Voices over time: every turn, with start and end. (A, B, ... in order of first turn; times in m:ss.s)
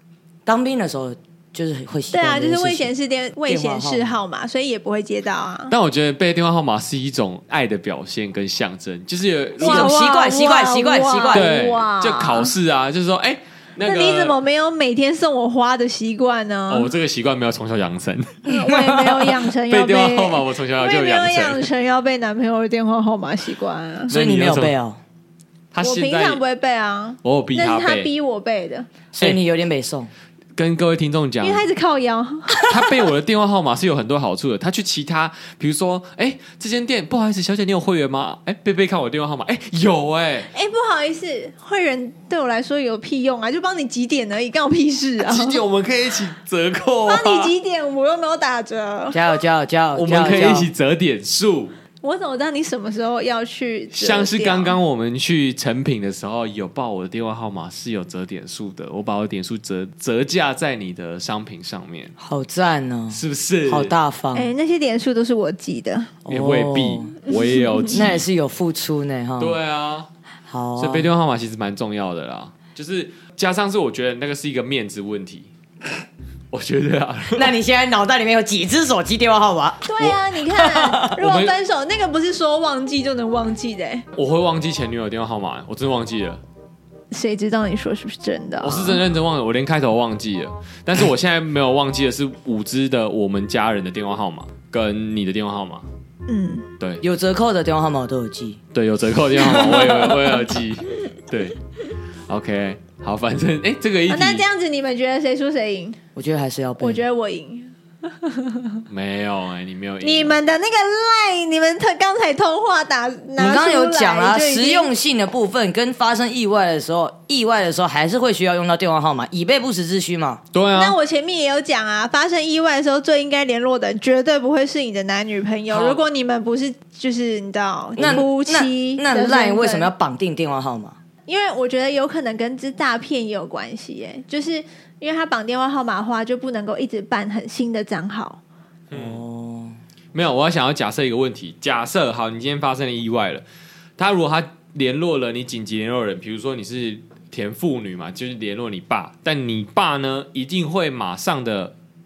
0:00.5-0:02.9 A
0:02.1-0:05.8 B
0:03.5-0:04.1 A
0:05.7-0:10.0 C
0:09.6-0:11.5 A
0:09.6-0:12.5 B
0:11.3-0:14.4 C
0:13.8-0:16.9 B
0:16.7-0:18.4 C
0:18.4-0:19.3 A
0:18.5-0:24.1 B
0:19.7-0:21.6 C
0:24.1-0:24.7 C
0:24.1-0:25.0 A
0:25.7-0:26.4 C
0:25.8-0:28.9 B
0:27.2-0:28.1 C
0:29.1-0:30.1 A
0:30.6-0:31.7 C
0:31.4-0:32.6 B
0:32.7-0:40.5 C
0:40.5-0:45.6 B
0:45.2-0:47.5 C
0:47.1-0:49.2 B
0:49.1-0:50.7 A
0:50.0-0:51.7 C
0:52.0-0:54.8 B
0:53.9-1:02.1 C
1:02.2-1:04.5 A
1:03.1-1:04.0 C
1:04.4-1:06.1 B
1:06.2-1:07.2 A
1:06.3-1:08.2 C
1:07.3-1:07.9 B
1:07.9-1:09.6 A
1:09.4-1:10.1 C
1:10.5-1:11.1 A
1:10.8-1:15.5 C
1:16.5-1:17.5 C
1:17.4-1:21.1 A
1:19.9-1:24.0 B
1:21.2-1:21.5 C
1:24.1-1:26.4 C
1:27.1-1:29.0 B
1:28.6-1:35.8 C
1:36.3-1:36.6 B
1:37.0-1:38.6 A
1:38.7-1:41.6 C
1:39.6-1:40.2 A
1:42.3-1:44.4 C
1:44.1-1:46.0 B
1:46.1-1:47.0 A
1:46.8-1:48.8 B
1:48.9-1:50.4 C
1:50.0-1:54.9 B
1:53.4-2:00.4 A
2:00.5-2:01.0 C
2:00.7-2:09.9 B
2:08.0-2:11.0 A
2:08.0-2:08.2 C
2:11.3-2:18.4 B
2:18.9-2:19.2 C
2:18.9-2:19.8 A
2:20.1-2:23.4 C
2:24.0-2:31.7 C